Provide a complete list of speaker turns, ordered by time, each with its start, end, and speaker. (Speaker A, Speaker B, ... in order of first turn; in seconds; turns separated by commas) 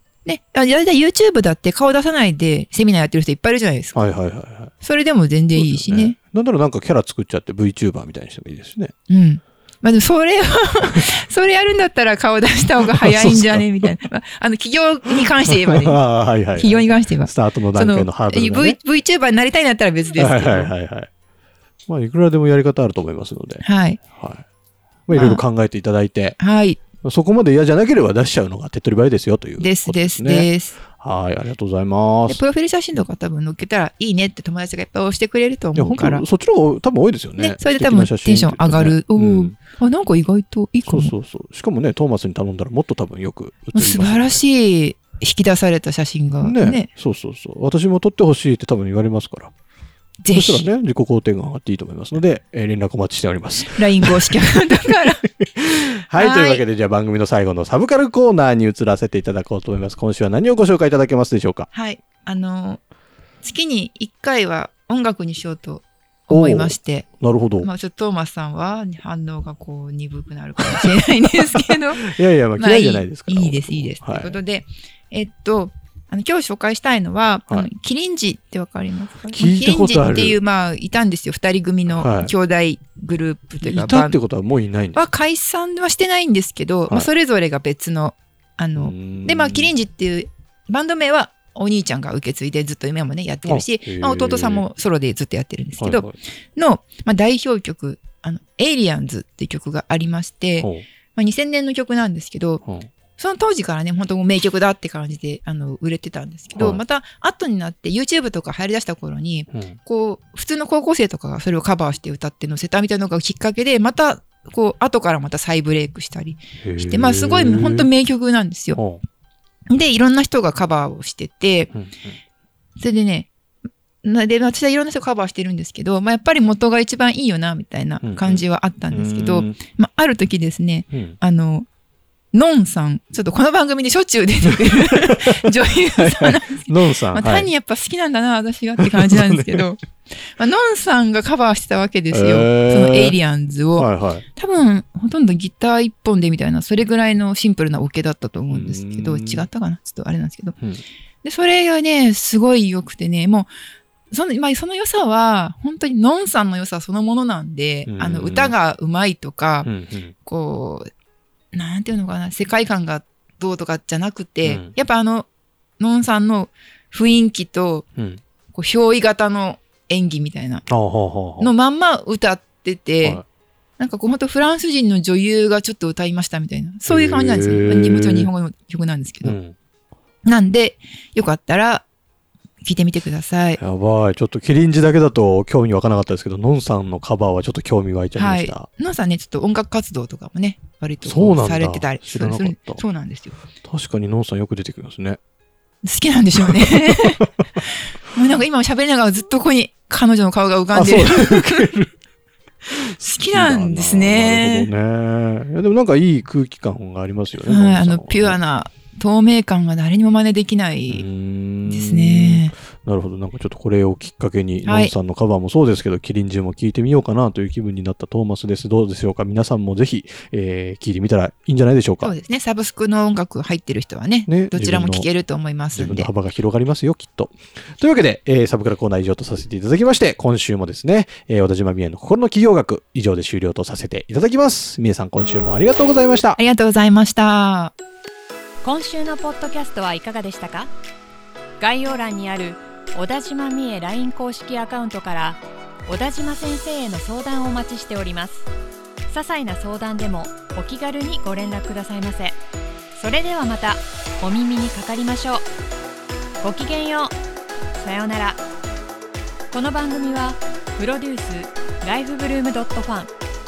Speaker A: 0.2-4.0, Speaker B: 3.9-4.7, Speaker A: 4.8-6.2, Speaker B: 5.6-8.9, Speaker A: 9.1-20.7, Speaker B: 12.9-13.7, Speaker B: 15.5-18.8, Speaker B: 20.2-21.1, Speaker B: 21.9-24.4, Speaker A: 23.6-24.0, Speaker B: 25.1-26.4, Speaker A: 25.1-25.4, Speaker A: 26.4-26.8, Speaker B: 27.0-32.4, Speaker A: 29.6-30.8, Speaker A: 32.3-36.2, Speaker B: 35.8-39.6, Speaker A: 37.4-41.1, Speaker B: 40.9-44.4, Speaker A: 43.7-46.9, Speaker B: 46.4-49.5, Speaker A: 50.2-50.6, Speaker B: 50.3-54.6, Speaker A: 53.7-55.3, Speaker B: 55.4-61.7, Speaker A: 56.1-56.6, Speaker A: 61.7-62.8, Speaker A: 63.4-84.2, Speaker B: 66.3-67.7, Speaker B: 72.0-74.3, Speaker B: 79.2-80.4, Speaker B: 81.9-82.3, Speaker B: 83.6-85.1, Speaker A: 84.9-102.6, Speaker B: 88.8-89.7, Speaker B: 93.5-94.7, Speaker B: 95.8-96.2, Speaker B: 100.6-100.8, Speaker A: 103.2-118.8, Speaker B: 106.5-106.8, Speaker B: 116.6-117.9, Speaker B: 118.8-119.0, Speaker A: 119.7-121.7, Speaker B: 121.7-122.2, Speaker A: 122.8-123.3, Speaker A: 124.0-131.7, Speaker B: 128.0-129.6, Speaker B: 130.9-131.2, Speaker A: 132.3-150.6, Speaker B: 134.6-137.5, Speaker B: 138.8-139.7, Speaker B: 142.1-143.2, Speaker B: 143.8-144.2, Speaker B: 148.5-149.5, Speaker A: 151.2-153.5, Speaker A: 154.1-159.7, Speaker B: 157.9-158.6, Speaker B: 159.7-160.1, Speaker A: 160.2-160.9, Speaker A: 161.5-165.3, Speaker B: 164.4-164.7, Speaker A: 165.8-167.9, Speaker A: 168.5-170.7, Speaker B: 170.7-171.5, Speaker A: 171.4-173.2, Speaker A: 173.8-179.4, Speaker B: 176.9-178.3, Speaker B: 179.2-179.6, Speaker A: 180.3-181.9, Speaker A: 182.6-183.6, Speaker B: 183.6-188.7, Speaker A: 188.2-193.4, Speaker B: 191.0-192.8, Speaker B: 193.6-195.2, Speaker A: 195.8-201.7, Speaker B: 196.5-197.0, Speaker B: 200.7-201.9, Speaker B: 202.7-208.4, Speaker A: 203.0-204.7, Speaker A: 207.4-211.1, Speaker B: 210.9-222.1, Speaker A: 211.7-212.6, Speaker A: 214.6-214.9, Speaker A: 222.0-226.1, Speaker B: 224.3-225.1, Speaker B: 225.7-236.4, Speaker A: 236.4-237.7, Speaker C: 238.6-240.7, Speaker C: 241.6-248.5, Speaker C: 249.1-252.4, Speaker C: 252.9-255.4, Speaker C: 256.4-257.1, Speaker C: 257.7-258.4, Speaker C: 259.5-263.1